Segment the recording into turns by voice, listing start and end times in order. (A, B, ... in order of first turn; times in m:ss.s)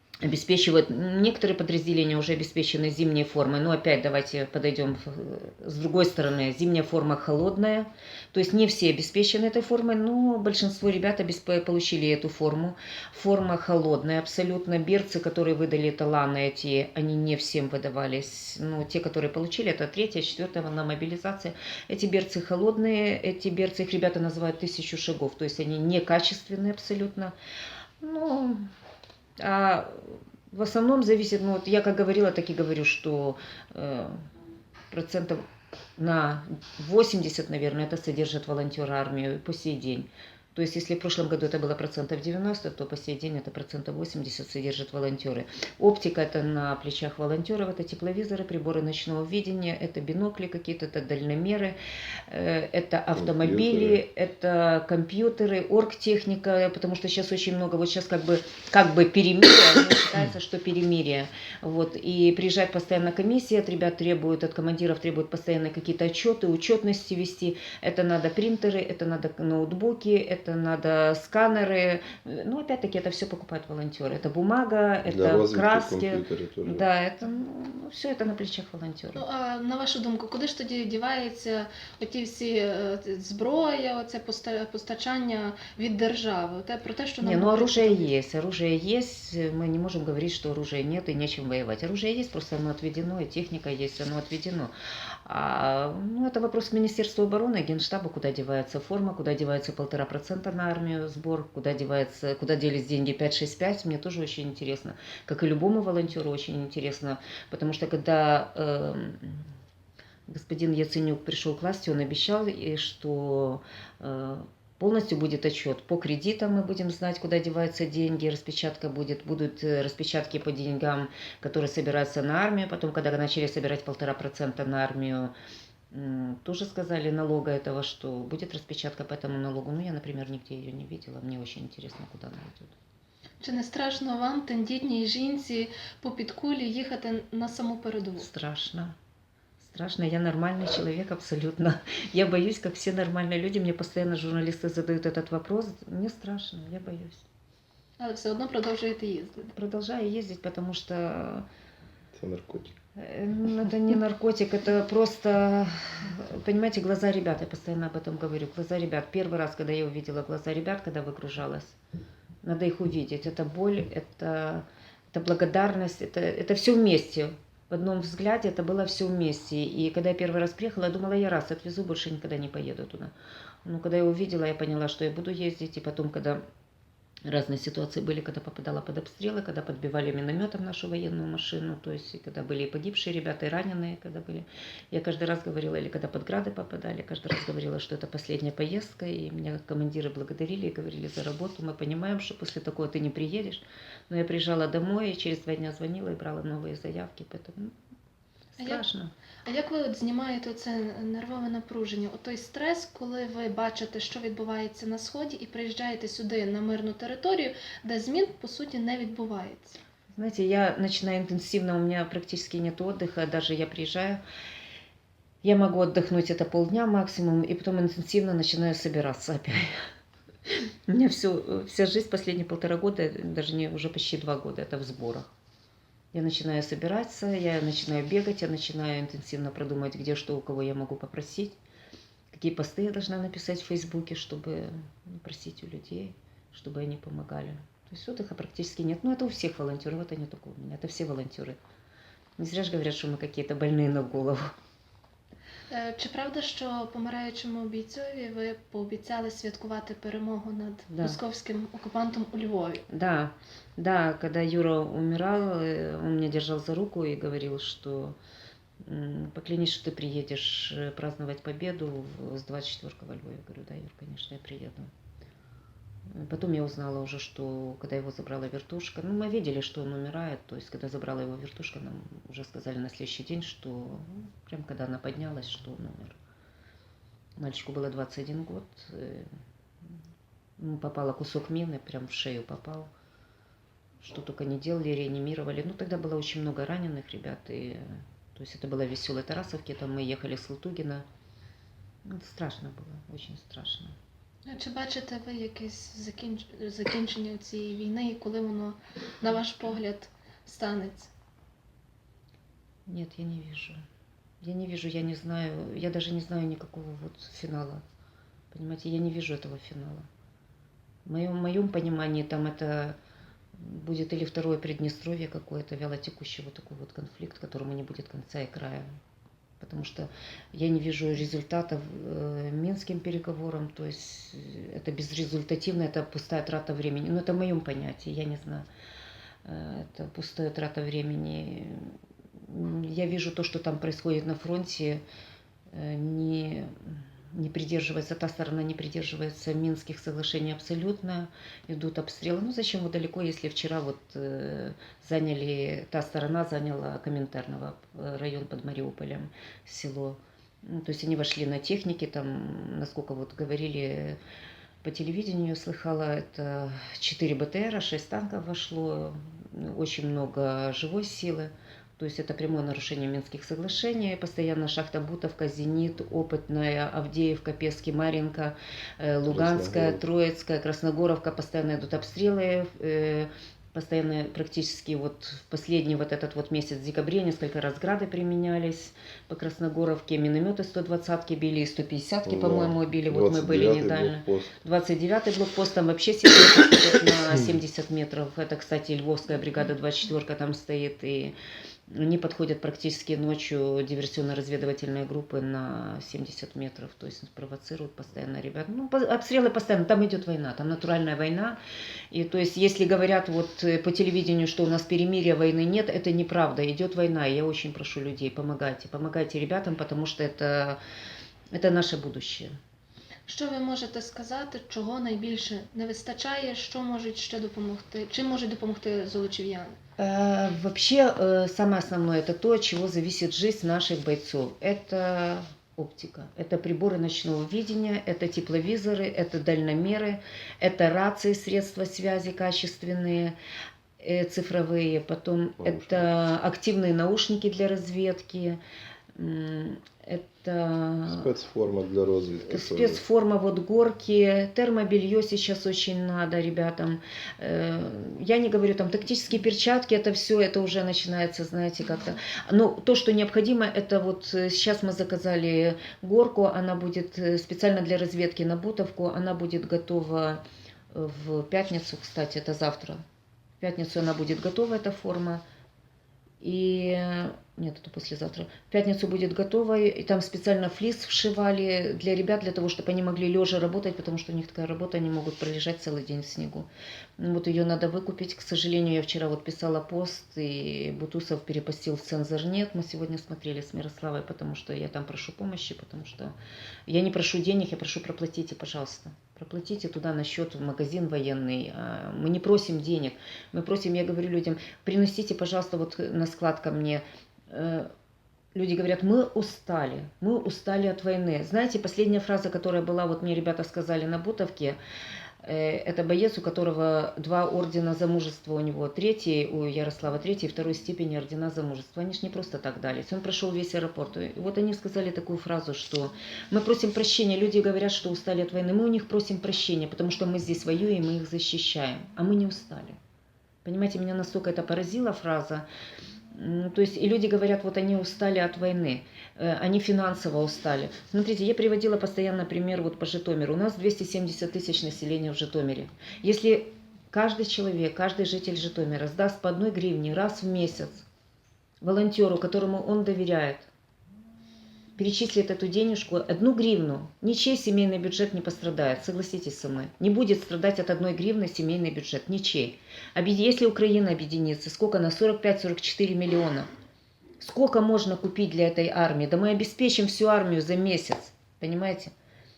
0:00.2-0:27.3 A
0:28.0-0:28.7 A
0:29.4-0:34.2 A
0:34.9-0:35.4 A
0:36.0-0:51.8 A
0:52.3-1:19.2 A
0:53.2-0:54.0 B
1:15.0-1:16.9 B
1:19.2-1:28.1 C
1:27.2-1:34.7 A
1:35.3-1:49.5 A
1:50.3-2:05.3 A
2:05.9-2:12.7 A
2:13.4-2:18.3 C
2:18.2-2:19.0 A
2:19.6-2:27.2 A
2:28.0-2:29.5 C
2:29.5-2:31.5 A
2:32.1-2:32.8 B
2:33.0-2:41.8 A
2:42.4-2:53.1 A
2:53.6-2:56.4 A
2:57.3-3:17.7 A
3:18.6-3:19.1 A
3:18.6-3:18.8 C
3:19.5-3:29.8 C
3:30.2-3:34.2 A
3:35.4-3:39.7 A
3:40.5-3:45.3 A
3:46.1-3:51.6 A
3:52.3-4:01.6 A
4:02.4-4:04.5 A
4:05.7-4:12.8 C
4:10.9-4:11.2 A
4:12.9-4:18.2 A
4:18.8-4:24.9 A
4:26.1-4:36.2 A
4:37.4-4:39.3 A
4:40.6-4:42.9 A
4:44.0-4:47.8 A
4:48.4-4:51.0 A
4:52.1-4:53.9 A
4:54.4-5:01.1 C
5:02.9-5:03.8 A
5:04.4-5:07.8 A
5:08.5-5:10.1 A
5:11.0-5:13.0 A
5:13.6-5:18.8 A
5:19.6-5:28.6 A
5:29.4-5:31.9 A
5:32.4-5:35.0 A
5:35.7-5:54.2 A
5:54.8-6:31.3 A
6:09.3-6:10.0 B
6:22.2-6:24.6 B
6:31.9-6:41.6 A
6:42.1-6:50.8 A
6:51.6-6:52.5 A
6:53.3-6:59.8 C
7:00.0-7:13.4 A
7:14.0-7:18.6 A
7:15.6-7:16.1 B
7:19.2-7:21.3 A
7:21.1-7:23.0 B
7:22.5-7:43.0 A
7:43.6-7:45.4 A
7:46.4-7:56.7 A
7:57.2-8:06.3 A
8:06.9-8:17.9 A
8:18.6-8:24.8 A
8:25.4-8:43.0 A
8:43.6-8:45.7 A
8:46.3-9:01.0 A
9:01.8-9:03.7 A
9:05.0-9:16.7 A
9:17.4-9:22.1 A